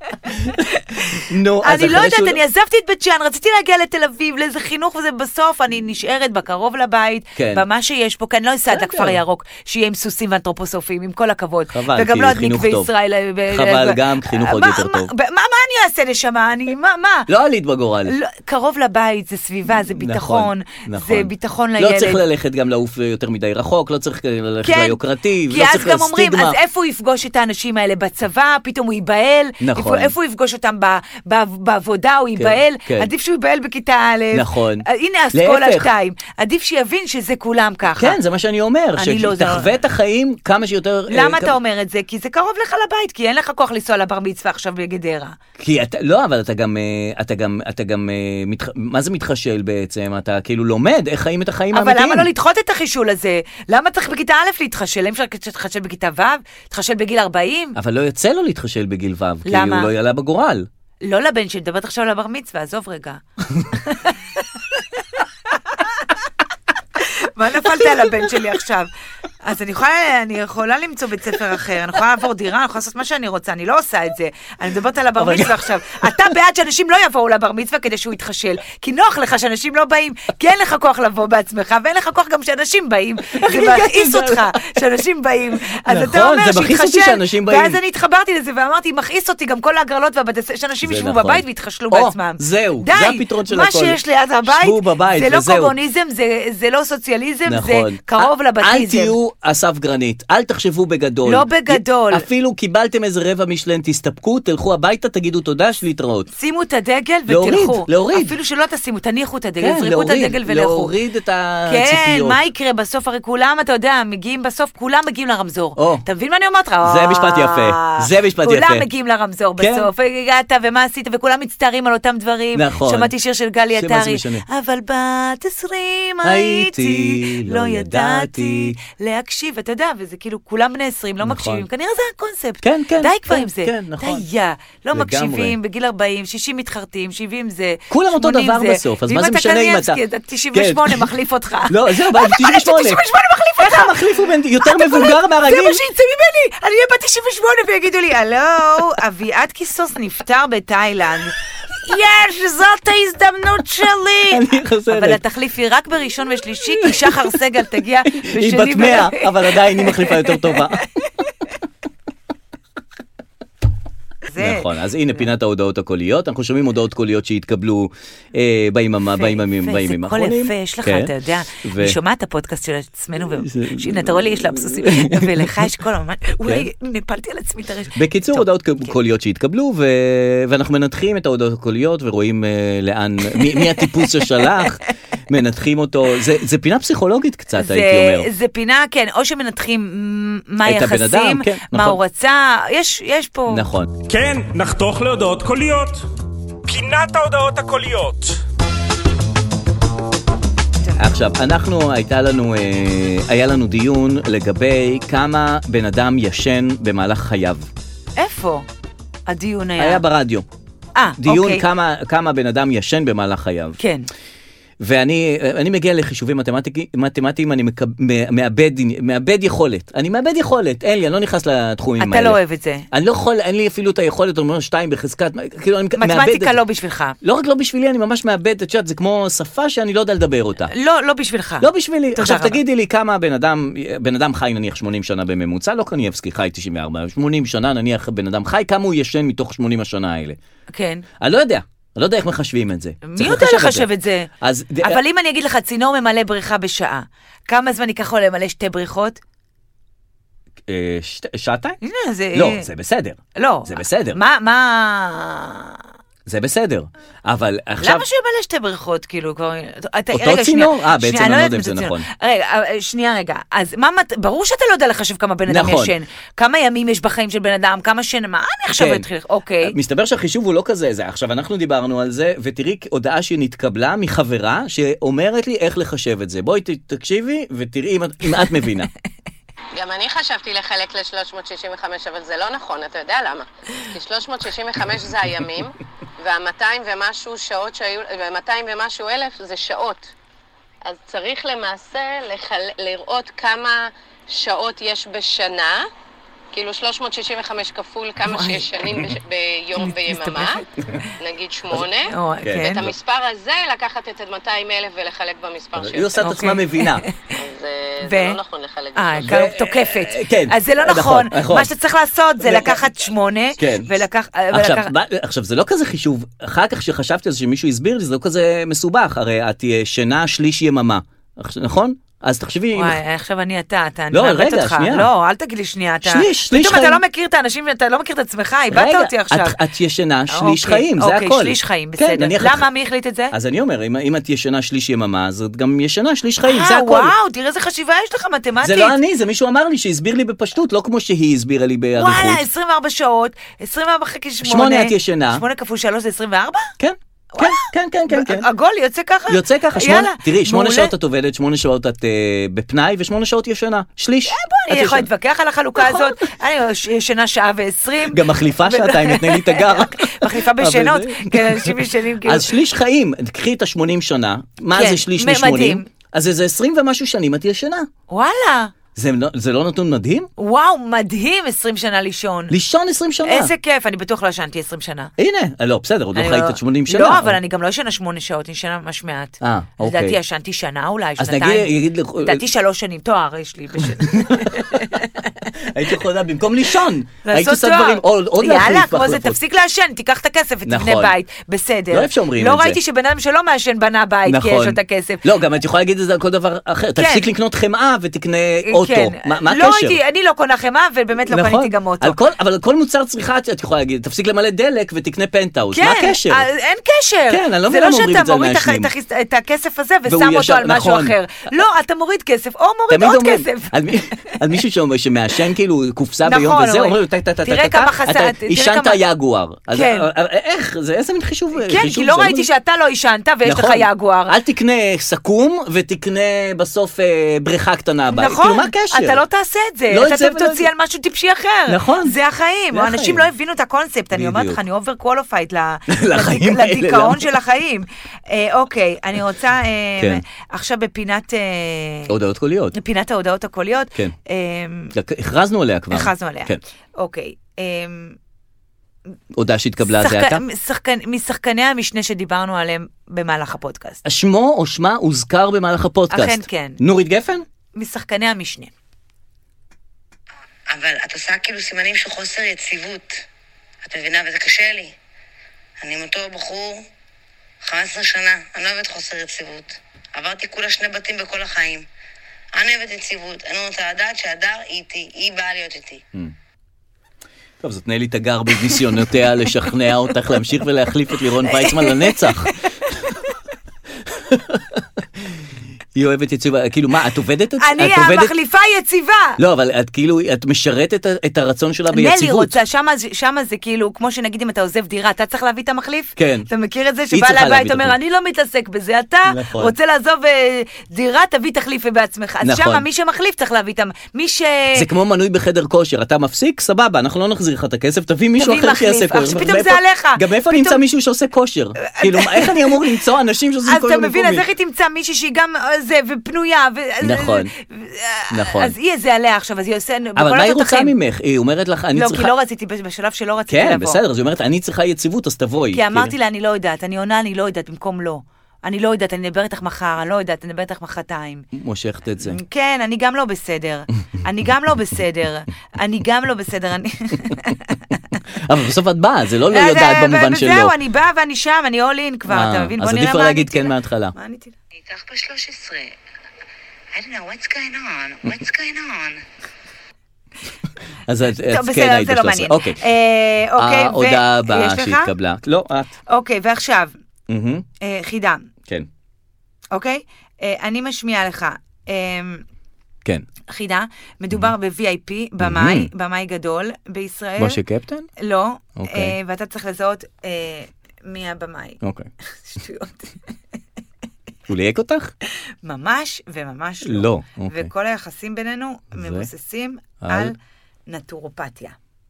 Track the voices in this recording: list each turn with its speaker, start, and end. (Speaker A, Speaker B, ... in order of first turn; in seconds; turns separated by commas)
Speaker A: 0.4-17.3, Speaker B: 1.1-2.4, Speaker B: 7.3-7.6, Speaker B: 8.7-9.2, Speaker B: 11.7-12.9, Speaker B: 13.5-15.1, Speaker B: 17.3-18.1, Speaker A: 18.1-22.2, Speaker B: 19.7-26.6, Speaker A: 24.6-38.2, Speaker B: 29.6-30.1, Speaker B: 32.4-33.1, Speaker B: 34.3-35.9, Speaker B: 38.0-41.5, Speaker A: 39.0-39.7, Speaker A: 41.1-45.3, Speaker B: 45.6-52.3, Speaker A: 51.7-57.8, Speaker B: 57.8-60.7, Speaker A: 59.5-59.9, Speaker A: 61.0-63.2, Speaker A: 63.9-64.1, Speaker A: 67.0-68.9, Speaker B: 67.8-68.1, Speaker A: 69.4-99.2, Speaker B: 75.2-76.0, Speaker B: 83.3-84.8, Speaker B: 85.8-87.8, Speaker B: 90.8-95.8, Speaker B: 97.5-106.3, Speaker A: 101.2-102.2, Speaker A: 106.3-110.9, Speaker B: 107.3-108.3, Speaker B: 109.6-112.4, Speaker A: 111.7-144.0, Speaker B: 115.8-116.0, Speaker B: 116.8-118.9, Speaker B: 119.6-119.9, Speaker B: 122.5-123.1, Speaker B: 123.8-124.4, Speaker B: 126.2-128.8, Speaker B: 131.2-131.7, Speaker B: 132.6-134.2, Speaker B: 134.9-135.6, Speaker B: 137.9-140.0, Speaker B: 140.5-141.1, Speaker B: 141.7-143.0, Speaker B: 143.6-145.8, Speaker A: 144.6-160.8, Speaker B: 154.3-155.2, Speaker B: 156.7-157.3, Speaker B: 158.1-160.8, Speaker A: 164.3-164.7, Speaker B: 164.4-172.0, Speaker A: 169.2-178.9, Speaker B: 173.2-175.7, Speaker B: 177.9-188.3, Speaker A: 183.3-184.4, Speaker A: 187.6-193.6, Speaker B: 190.6-192.0, Speaker B: 193.5-193.9, Speaker C: 194.1-196.1, Speaker C: 196.6-198.4, Speaker B: 200.9-207.7, Speaker A: 208.2-208.7, Speaker A: 209.3-210.0, Speaker B: 209.8-210.4, Speaker A: 210.9-211.6, Speaker B: 211.2-213.8, Speaker A: 213.8-214.1, Speaker B: 214.8-222.4, Speaker A: 222.0-222.9, Speaker B: 222.9-226.6, Speaker A: 226.0-227.2, Speaker B: 227.2-230.7, Speaker A: 230.7-232.6, Speaker B: 231.6-240.4, Speaker A: 240.7-241.0, Speaker B: 241.2-243.9, Speaker A: 243.0-244.3, Speaker B: 244.4-245.0, Speaker A: 244.8-249.2, Speaker B: 250.7-251.8, Speaker A: 251.8-252.7, Speaker B: 252.3-254.2, Speaker A: 253.3-255.8, Speaker B: 256.2-258.0, Speaker A: 257.8-269.8, Speaker B: 260.1-262.1, Speaker B: 265.5-265.9, Speaker B: 268.7-269.1, Speaker B: 269.6-278.9, Speaker D: 279.7-290.1, Speaker D: 290.8-295.9, Speaker D: 296.5-300.6, Speaker A: 298.2-298.7, Speaker A: 299.8-301.1, Speaker D: 301.2-306.2, Speaker A: 302.1-302.9, Speaker B: 302.4-302.9, Speaker B: 305.8-307.0, Speaker A: 306.2-307.3, Speaker D: 307.3-309.5, Speaker A: 308.0-308.4, Speaker A: 308.9-314.9, Speaker B: 309.2-311.7, Speaker B: 312.4-312.8, Speaker B: 313.6-313.9, Speaker B: 314.5-323.0, Speaker A: 322.7-329.6, Speaker B: 324.1-325.1, Speaker B: 326.0-327.0, Speaker B: 328.7-332.6, Speaker A: 330.3-333.3, Speaker B: 333.3-337.1, Speaker A: 336.4-339.0, Speaker B: 338.6-342.4, Speaker A: 341.9-346.7, Speaker B: 344.4-345.4, Speaker B: 346.8-348.5, Speaker A: 347.3-350.9, Speaker B: 349.3-355.1, Speaker A: 354.2-362.5, Speaker B: 355.8-356.1, Speaker B: 358.1-367.9, Speaker A: 364.7-365.9, Speaker A: 368.1-368.7, Speaker B: 368.9-370.3, Speaker A: 370.4-372.5, Speaker B: 372.5-373.5, Speaker A: 373.2-375.1, Speaker B: 375.2-377.4, Speaker A: 376.1-385.3, Speaker B: 379.4-380.2, Speaker B: 381.2-382.4, Speaker B: 383.8-389.4, Speaker A: 387.2-395.2, Speaker B: 390.6-391.1, Speaker B: 391.9-392.8, Speaker B: 394.2-400.0, Speaker A: 397.0-397.3, Speaker A: 398.6-402.2, Speaker B: 401.3-406.4, Speaker A: 405.7-414.4, Speaker B: 407.3-408.9, Speaker B: 410.1-411.1, Speaker B: 412.9-422.5, Speaker A: 416.2-419.0, Speaker A: 419.7-420.1, Speaker A: 421.6-424.3, Speaker B: 423.4-429.2, Speaker A: 428.1-442.1, Speaker B: 429.9-430.7, Speaker B: 431.7-432.1, Speaker B: 432.7-433.3, Speaker B: 434.1-434.6, Speaker B: 435.9-437.3, Speaker B: 440.0-440.2, Speaker B: 442.1-442.7, Speaker A: 442.7-444.9, Speaker B: 444.9-446.6, Speaker A: 445.9-448.2, Speaker B: 449.3-450.4, Speaker A: 449.8-454.0, Speaker B: 454.0-457.4, Speaker A: 456.1-456.8, Speaker A: 457.7-458.7, Speaker E: 460.7-463.2, Speaker E: 463.8-464.9, Speaker E: 465.8-466.9, Speaker E: 467.6-471.9, Speaker E: 472.5-476.0, Speaker B: 477.6-482.6, Speaker A: 481.4-483.1, Speaker B: 484.0-485.4, Speaker B: 485.9-488.3, Speaker A: 487.6-489.4, Speaker B: 489.4-492.6, Speaker A: 491.9-504.9, Speaker B: 496.2-496.5, Speaker B: 497.1-497.9, Speaker B: 499.3-499.7, Speaker B: 502.4-502.9, Speaker B: 504.7-514.5, Speaker A: 508.4-510.8, Speaker A: 511.8-512.8, Speaker A: 513.7-520.9, Speaker B: 517.0-517.5, Speaker B: 518.3-518.8, Speaker B: 520.1-522.3, Speaker A: 521.9-524.0, Speaker B: 523.5-526.1, Speaker A: 525.7-531.5, Speaker B: 531.5-532.4, Speaker A: 532.2-538.1, Speaker B: 538.4-540.8, Speaker A: 539.5-544.5, Speaker B: 542.3-544.1, Speaker E: 544.8-546.0, Speaker E: 546.9-549.2, Speaker B: 551.0-552.8, Speaker A: 551.5-555.1, Speaker B: 553.5-555.9, Speaker A: 556.1-556.9, Speaker B: 557.3-557.6, Speaker A: 557.8-558.5, Speaker A: 559.7-562.4, Speaker A: 563.5-567.6, Speaker B: 565.4-565.9, Speaker B: 567.4-568.1, Speaker A: 568.2-571.8, Speaker B: 568.8-569.1, Speaker B: 571.8-572.1, Speaker A: 572.4-573.1, Speaker B: 574.5-575.1, Speaker A: 575.6-580.3, Speaker B: 576.8-577.7, Speaker B: 578.9-579.3, Speaker B: 580.0-580.3, Speaker A: 580.9-581.8